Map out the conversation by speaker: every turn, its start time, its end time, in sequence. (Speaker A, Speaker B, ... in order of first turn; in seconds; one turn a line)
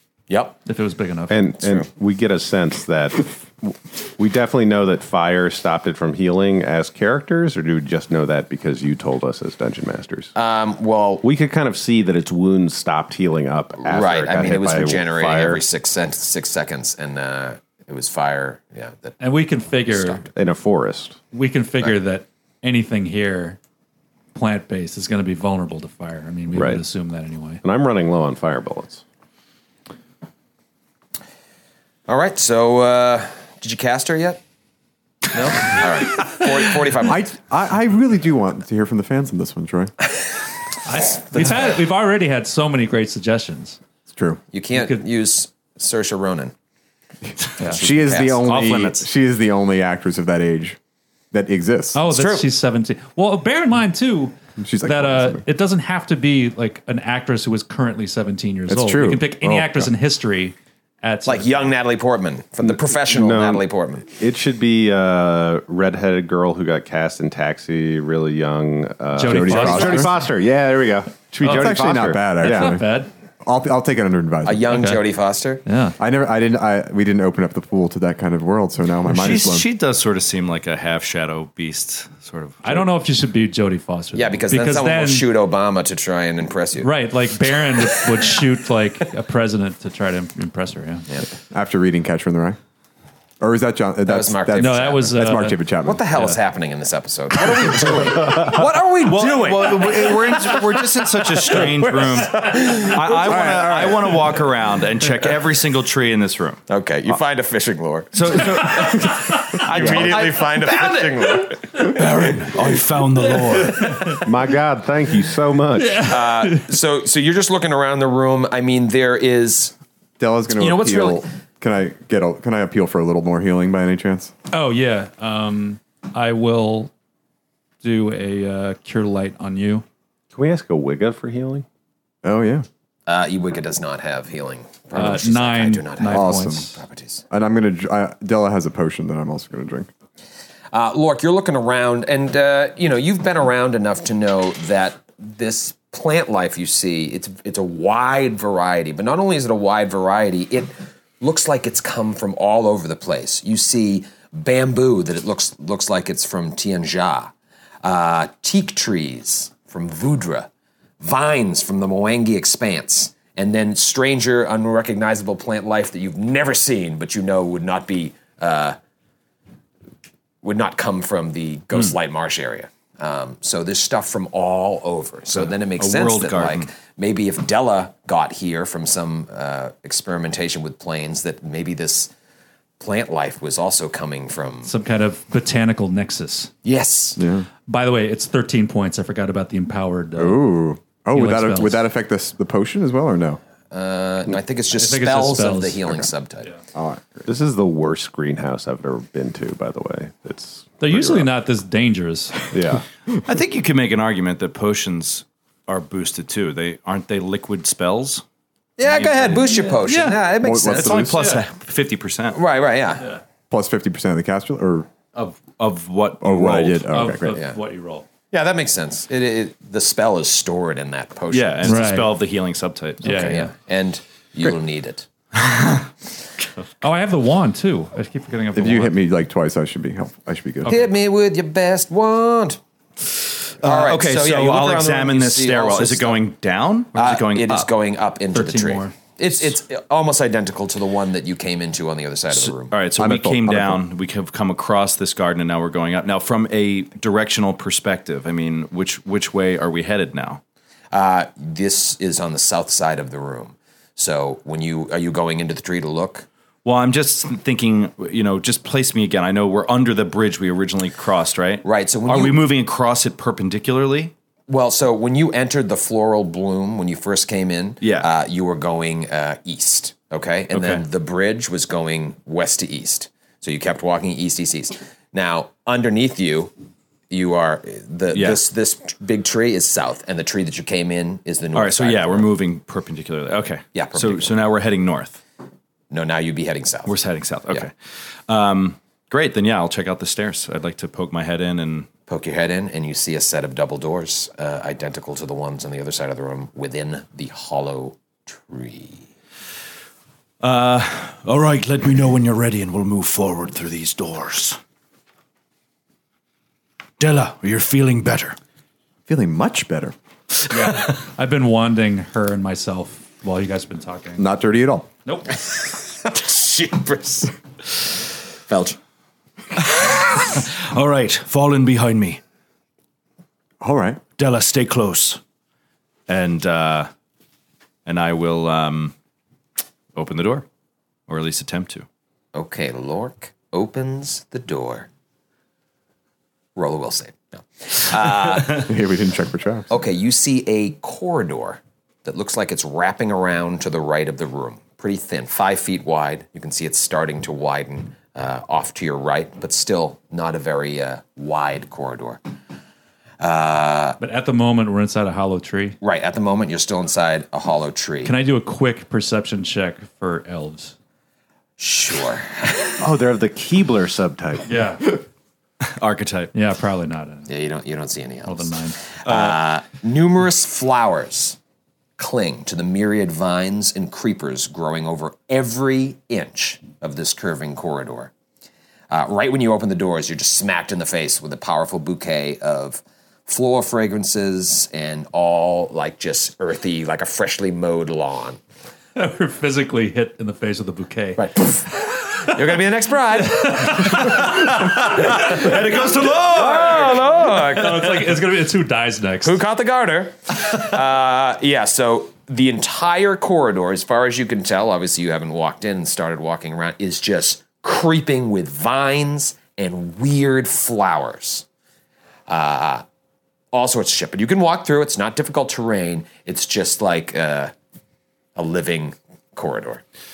Speaker A: 0.3-0.6
Speaker B: 0.6-1.6
Speaker C: 1.3-10.3
Speaker A: 10.3-11.2
Speaker C: 11.2-15.6
Speaker A: 13.8-19.2
Speaker B: 19.2-20.3
Speaker A: 19.9-20.2
Speaker C: 20.3-21.2
Speaker B: 21.3-23.6
Speaker B: 24.3-27.6
Speaker C: 26.5-26.8
Speaker C: 27.6-29.0
Speaker A: 32.1-34.4
Speaker A: 35.4-37.2
Speaker B: 35.6-36.3
Speaker D: 37.1-39.9
Speaker B: 40.9-43.8
Speaker A: 41.2-41.8
Speaker D: 44.1-44.4
Speaker A: 44.5-46.5
Speaker B: 44.7-45.0
Speaker A: 47.6-48.4
Speaker D: 47.8-50.8
Speaker E: 48.4-49.1
Speaker D: 51.3-52.0
Speaker B: 51.9-61.7
Speaker A: 52.1-52.5
Speaker D: 54.6-55.4
Speaker D: 58.7-59.9
Speaker A: 61.3-64.0
Speaker C: 62.6-72.8
Speaker B: 69.2-70.2
Speaker D: 69.2-70.1
Speaker D: 71.4-72.8
Speaker B: 71.4-71.8
Speaker B: 72.4-73.1
Speaker D: 73.4-74.7
Speaker A: 74.4-75.6
Speaker B: 74.7-75.0
Speaker B: 75.7-76.0
Speaker D: 76.0-79.7
Speaker E: 79.1-82.9
Speaker B: 82.6-85.3
Speaker A: 84.1-86.9
Speaker B: 86.8-91.1
Speaker A: 88.0-88.2
Speaker D: 91.5-92.6
Speaker D: 93.4-96.0
Speaker A: 94.1-100.8
Speaker B: 94.6-95.6
Speaker B: 96.1-96.4
Speaker E: 98.6-106.6
Speaker A: 101.5-103.0
Speaker D: 103.2-104.2
Speaker A: 106.7-111.9
Speaker E: 108.1-114.2
Speaker B: 113.6-114.2
Speaker C: 114.2-116.1
Speaker B: 115.8-116.7
Speaker A: 116.1-119.7
Speaker D: 120.2-124.3
Speaker A: 120.6-121.2
Speaker B: 124.5-126.9
Speaker B: 127.8-129.8
Speaker C: 130.3-131.6
Speaker D: 132.2-132.7
Speaker A: 133.1-137.2
Speaker B: 134.9-136.8
Speaker D: 136.1-136.7
Speaker D: 137.3-139.9
Speaker A: 140.7-160.5
Speaker A: 161.0-168.8
Speaker A: 170.4-182.1
Speaker E: 175.3-176.7
Speaker A: 182.8-184.7
Speaker B: 184.6-186.5
Speaker A: 186.6-187.2
Speaker D: 187.2-187.5
Speaker B: 187.7-190.4
Speaker D: 190.2-193.4
Speaker B: 191.1-191.8
Speaker A: 193.7-196.5
Speaker B: 194.7-196.1
Speaker D: 196.7-197.3
Speaker C: 197.3-201.3
Speaker B: 200.8-202.5
Speaker C: 202.5-202.8
Speaker E: 203.2-208.2
Speaker A: 208.8-211.1
Speaker E: 208.9-209.5
Speaker B: 209.4-210.3
Speaker D: 210.4-211.2
Speaker E: 210.7-212.4
Speaker B: 211.1-211.4
Speaker A: 212.3-213.1
Speaker D: 213.5-214.9
Speaker E: 215.2-216.9
Speaker D: 216.2-217.4
Speaker B: 216.9-218.1
Speaker A: 217.3-217.6
Speaker A: 218.3-221.8
Speaker E: 221.3-223.2
Speaker B: 221.6-222.2
Speaker B: 223.0-223.6
Speaker A: 223.0-225.1
Speaker E: 225.4-225.9
Speaker B: 226.8-228.9
Speaker D: 228.6-230.8
Speaker B: 230.7-231.0
Speaker A: 230.7-232.6
Speaker E: 233.6-237.7
Speaker A: 233.6-236.2
Speaker A: 236.9-242.8
Speaker B: 238.3-239.1
Speaker E: 242.3-250.4
Speaker D: 243.0-243.8
Speaker A: 250.9-256.3
Speaker E: 256.6-264.1
Speaker A: 261.6-262.5
Speaker A: 264.5-276.5
Speaker E: 267.8-268.1
Speaker E: 270.5-270.8
Speaker A: 277.1-282.3
Speaker E: 278.1-278.4
Speaker E: 281.6-285.2
Speaker A: 283.7-284.4
Speaker A: 285.9-287.7
Speaker E: 286.9-291.9
Speaker A: 292.1-299.0
Speaker E: 300.4-304.6
Speaker E: 307.0-308.4
Speaker D: 309.1-309.9
Speaker B: 310.5-314.2
Speaker D: 314.2-314.9
Speaker B: 315.1-315.4
Speaker A: 316.0-317.3
Speaker A: 318.5-318.8
Speaker E: 319.6-322.2
Speaker D: 323.6-324.0
Speaker E: 324.2-325.2
Speaker E: 326.1-326.9
Speaker E: 327.9-328.9
Speaker E: 329.9-330.4
Speaker E: 331.1-331.9
Speaker A: 332.3-334.9
Speaker A: 336.6-338.7
Speaker D: 338.5-339.7
Speaker A: 339.7-352.2
Speaker A: 353.2-354.0
Speaker B: 354.0-355.8
Speaker A: 355.8-358.1
Speaker B: 358.0-360.7
Speaker A: 361.6-362.8
Speaker C: 362.8-364.5
Speaker B: 364.4-365.0
Speaker E: 365.8-366.3
Speaker B: 366.3-367.3
Speaker A: 367.3-371.4
Speaker B: 368.2-368.8
Speaker E: 369.1-369.4
Speaker A: 372.0-378.1
Speaker A: 378.9-388.4
Speaker B: 388.9-392.3
Speaker A: 391.2-391.7
Speaker A: 392.2-394.1
Speaker B: 393.3-395.5
Speaker A: 394.9-398.1
Speaker E: 394.9-397.5
Speaker B: 397.5-399.4
Speaker A: 399.2-411.4
Speaker A: 412.3-412.8
Speaker A: 413.5-417.5
Speaker A: 418.4-419.8